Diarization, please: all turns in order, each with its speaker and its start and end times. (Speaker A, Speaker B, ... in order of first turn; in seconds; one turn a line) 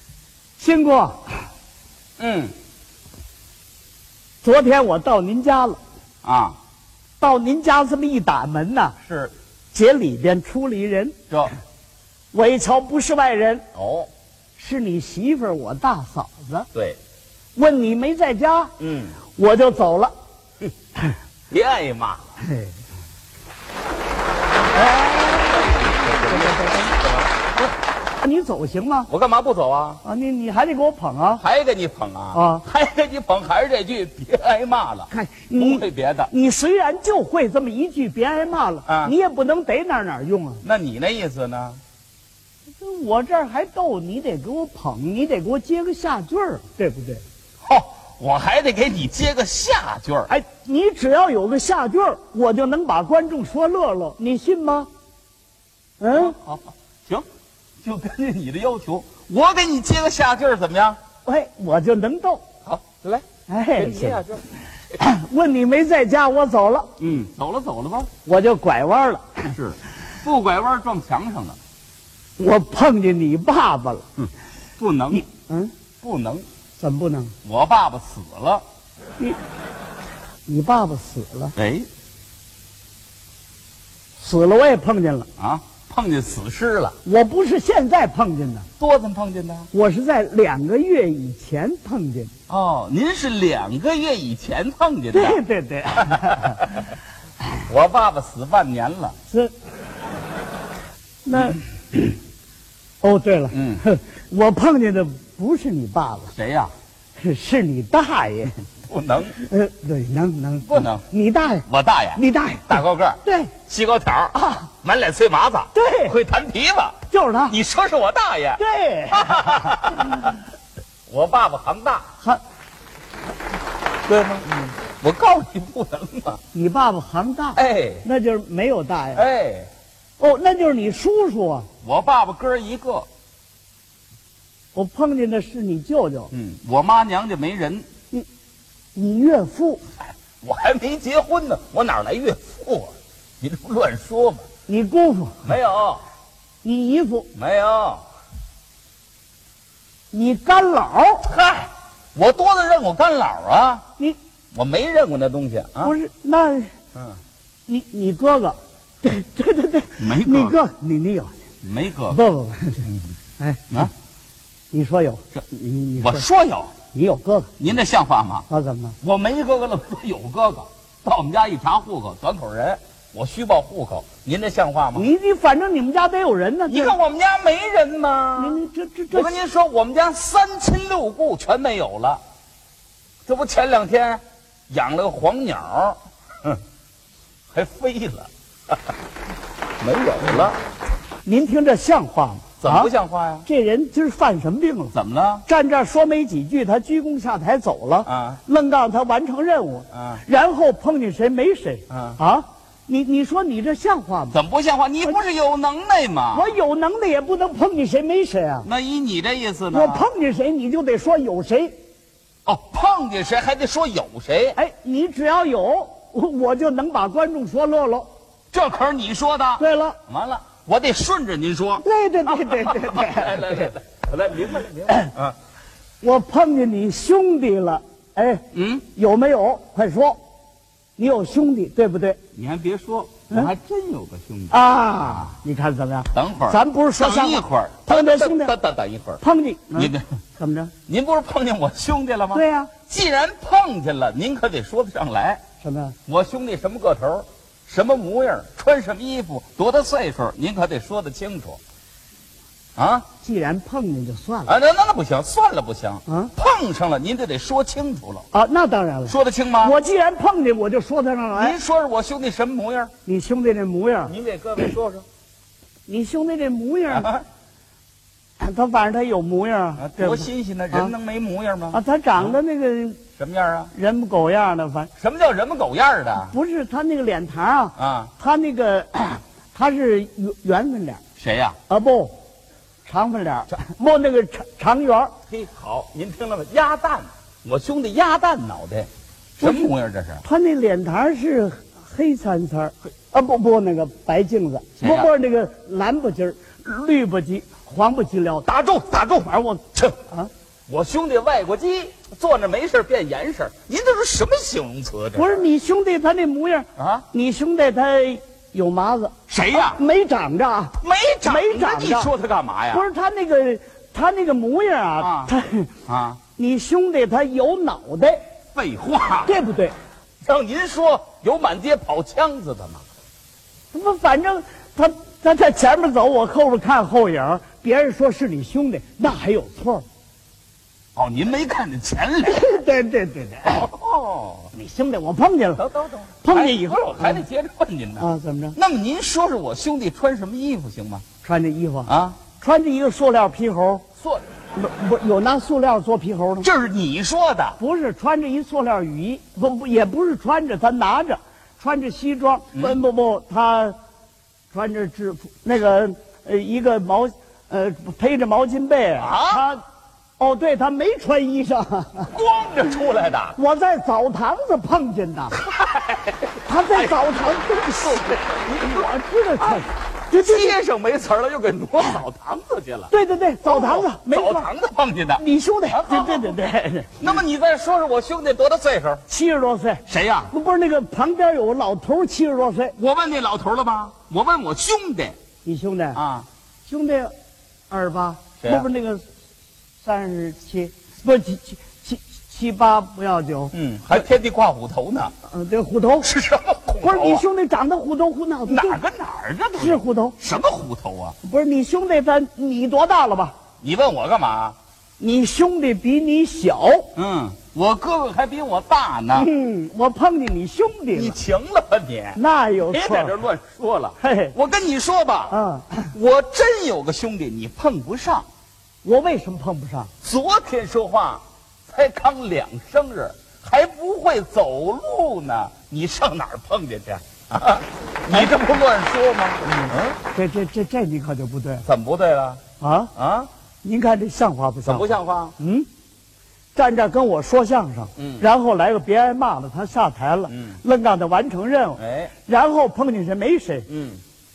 Speaker A: 0.6-1.5
Speaker B: 2.2-2.5
Speaker A: 4.4-5.8
Speaker B: 6.2-6.5
Speaker A: 7.2-8.9
Speaker B: 9.1-9.3
Speaker A: 9.7-11.1
Speaker A: 12.3-13.6
Speaker B: 13.7-14.1
Speaker A: 14.6-16.7
Speaker A: 17.6-18.7
Speaker B: 18.8-19.2
Speaker A: 19.3-20.1
Speaker B: 21.5-22.3
Speaker A: 22.4-22.7
Speaker A: 24.8-26.9
Speaker B: 25.6-27.5
Speaker A: 28.2-29.1
Speaker B: 29.1-30.0
Speaker A: 30.0-31.4
Speaker B: 31.4-36.3
Speaker A: 32.3-32.6
Speaker A: 35.1-40.6
Speaker B: 38.9-39.1
Speaker B: 40.6-41.8
Speaker A: 42.8-47.2
Speaker B: 47.6-50.3
Speaker A: 50.3-54.9
Speaker A: 56.0-56.3
Speaker B: 56.1-57.2
Speaker B: 57.8-61.0
Speaker A: 61.2-62.4
Speaker B: 62.6-63.2
Speaker A: 63.5-64.2
Speaker B: 63.8-64.4
Speaker A: 64.9-66.9
Speaker B: 67.0-68.1
Speaker A: 68.2-69.5
Speaker B: 69.5-71.6
Speaker A: 72.4-74.0
Speaker B: 74.8-75.2
Speaker A: 75.1-75.7
Speaker B: 76.0-76.4
Speaker A: 76.8-77.3
Speaker B: 77.4-78.6
Speaker A: 80.5-81.5
Speaker B: 81.5-81.9
Speaker A: 84.2-85.3
Speaker B: 85.4-87.0
Speaker A: 87.0-88.7
Speaker B: 88.8-89.7
Speaker A: 89.7-92.3
Speaker B: 92.5-95.4
Speaker A: 95.1-96.6
Speaker B: 96.1-96.7
Speaker B: 97.7-99.1
Speaker A: 101.2-102.2
Speaker A: 103.0-106.3
Speaker B: 103.5-103.8
Speaker B: 106.3-106.7
Speaker A: 107.2-108.5
Speaker B: 108.9-109.4
Speaker A: 109.4-113.5
Speaker B: 110.7-111.0
Speaker B: 111.7-117.0
Speaker A: 114.3-114.7
Speaker A: 115.7-116.1
Speaker A: 117.1-117.6
Speaker B: 117.5-118.6
Speaker A: 118.6-120.2
Speaker B: 119.1-120.3
Speaker B: 121.1-122.0
Speaker B: 124.1-126.4
Speaker A: 126.5-129.2
Speaker B: 127.5-128.0
Speaker B: 129.1-129.7
Speaker A: 130.2-131.7
Speaker B: 131.8-133.1
Speaker A: 134.7-136.3
Speaker B: 136.3-137.8
Speaker A: 138.9-139.8
Speaker B: 140.4-144.4
Speaker A: 144.7-145.4
Speaker B: 145.4-146.0
Speaker A: 146.6-147.3
Speaker B: 147.3-148.0
Speaker A: 150.1-151.3
Speaker B: 151.2-153.8
Speaker B: 154.5-155.9
Speaker A: 155.8-156.7
Speaker A: 157.7-161.3
Speaker B: 160.0-160.6
Speaker B: 161.6-162.2
Speaker A: 162.1-162.8
Speaker A: 163.4-163.9
Speaker A: 164.7-166.2
Speaker B: 166.0-166.7
Speaker A: 166.9-167.5
Speaker B: 167.6-168.4
Speaker A: 168.5-168.9
Speaker B: 169.0-175.1
Speaker A: 174.9-176.9
Speaker B: 176.7-178.6
Speaker A: 178.4-179.4
Speaker B: 179.1-182.2
Speaker B: 183.2-186.6
Speaker B: 187.5-188.8
Speaker B: 189.8-190.6
Speaker A: 191.2-192.9
Speaker B: 192.6-193.4
Speaker A: 193.4-194.9
Speaker B: 194.9-195.4
Speaker A: 195.4-204.4
Speaker B: 198.1-198.4
Speaker B: 199.9-200.2
Speaker B: 201.9-202.2
Speaker B: 204.3-206.5
Speaker A: 206.3-208.7
Speaker B: 208.6-210.0
Speaker A: 209.7-211.7
Speaker B: 212.4-214.6
Speaker A: 214.6-218.1
Speaker B: 218.5-225.3
Speaker A: 219.6-220.0
Speaker A: 221.8-223.7
Speaker A: 226.0-228.4
Speaker B: 228.5-228.8
Speaker A: 228.9-230.2
Speaker A: 231.0-232.2
Speaker B: 232.3-235.3
Speaker A: 234.5-238.5
Speaker B: 236.1-239.2
Speaker A: 239.2-240.7
Speaker B: 239.7-240.1
Speaker B: 240.9-245.4
Speaker A: 242.3-242.7
Speaker A: 245.6-245.9
Speaker B: 246.1-251.6
Speaker B: 252.8-253.1
Speaker A: 253.2-254.5
Speaker B: 254.5-258.3
Speaker A: 256.1-256.3
Speaker A: 258.3-261.6
Speaker B: 259.1-259.8
Speaker B: 261.3-262.9
Speaker A: 263.1-264.1
Speaker B: 264.1-265.0
Speaker A: 265.9-267.1
Speaker B: 266.9-267.2
Speaker A: 268.4-270.9
Speaker B: 269.8-272.4
Speaker A: 271.7-273.0
Speaker B: 273.2-273.7
Speaker A: 273.7-274.9
Speaker B: 275.0-276.3
Speaker A: 276.2-281.0
Speaker B: 277.8-278.1
Speaker B: 281.2-281.6
Speaker A: 281.7-282.1
Speaker A: 282.8-285.1
Speaker B: 285.3-290.2
Speaker A: 289.4-289.7
Speaker A: 290.2-298.4
Speaker B: 294.8-295.1
Speaker B: 298.4-299.9
Speaker A: 299.2-300.3
Speaker B: 300.7-305.4
Speaker A: 305.1-312.1
Speaker B: 306.8-307.1
Speaker B: 309.3-309.8
Speaker B: 310.8-312.8
Speaker A: 312.7-315.7
Speaker B: 315.0-315.3
Speaker B: 315.9-316.2
Speaker A: 316.4-318.2
Speaker B: 318.5-319.3
Speaker A: 319.2-319.7
Speaker B: 320.2-322.8
Speaker A: 323.7-329.8
Speaker B: 330.9-332.5
Speaker A: 332.2-333.7
Speaker B: 333.4-334.5
Speaker A: 334.5-335.6
Speaker B: 335.6-341.0
Speaker A: 336.2-337.2
Speaker A: 338.0-338.6
Speaker A: 341.2-343.8
Speaker B: 341.9-342.2
Speaker A: 344.5-346.5
Speaker B: 346.4-347.6
Speaker A: 347.6-353.7
Speaker A: 354.5-359.6
Speaker B: 359.0-359.4
Speaker A: 360.2-362.1
Speaker B: 362.1-363.4
Speaker A: 363.4-365.4
Speaker B: 365.4-372.9
Speaker A: 366.4-370.6
Speaker A: 372.9-374.5
Speaker B: 373.4-376.4
Speaker A: 375.2-377.2
Speaker B: 377.0-379.0
Speaker A: 379.1-382.7
Speaker B: 379.9-380.3
Speaker B: 382.8-385.1
Speaker A: 385.4-386.0
Speaker B: 385.9-386.3
Speaker A: 386.7-387.1
Speaker A: 387.7-389.0
Speaker B: 388.4-388.7
Speaker A: 389.8-393.5
Speaker B: 393.5-395.1
Speaker A: 395.3-396.1
Speaker B: 396.0-397.2
Speaker A: 396.8-398.8
Speaker B: 398.5-401.1
Speaker A: 399.6-400.2
Speaker A: 401.2-403.3
Speaker B: 403.6-404.6
Speaker A: 405.0-406.9
Speaker B: 406.9-409.3
Speaker A: 409.1-411.2
Speaker B: 410.9-412.2
Speaker A: 412.1-413.1
Speaker B: 412.7-415.4
Speaker A: 414.0-414.3
Speaker A: 415.3-415.9
Speaker B: 415.9-418.2
Speaker A: 418.8-419.9
Speaker B: 420.0-430.0
Speaker A: 430.1-431.6
Speaker B: 431.6-432.4
Speaker A: 432.6-432.9
Speaker B: 432.9-433.3
Speaker A: 433.6-434.9
Speaker B: 434.6-435.3
Speaker A: 435.4-435.7
Speaker A: 436.5-443.7
Speaker B: 438.0-438.2
Speaker B: 440.3-440.6
Speaker B: 441.8-442.1
Speaker B: 443.7-444.0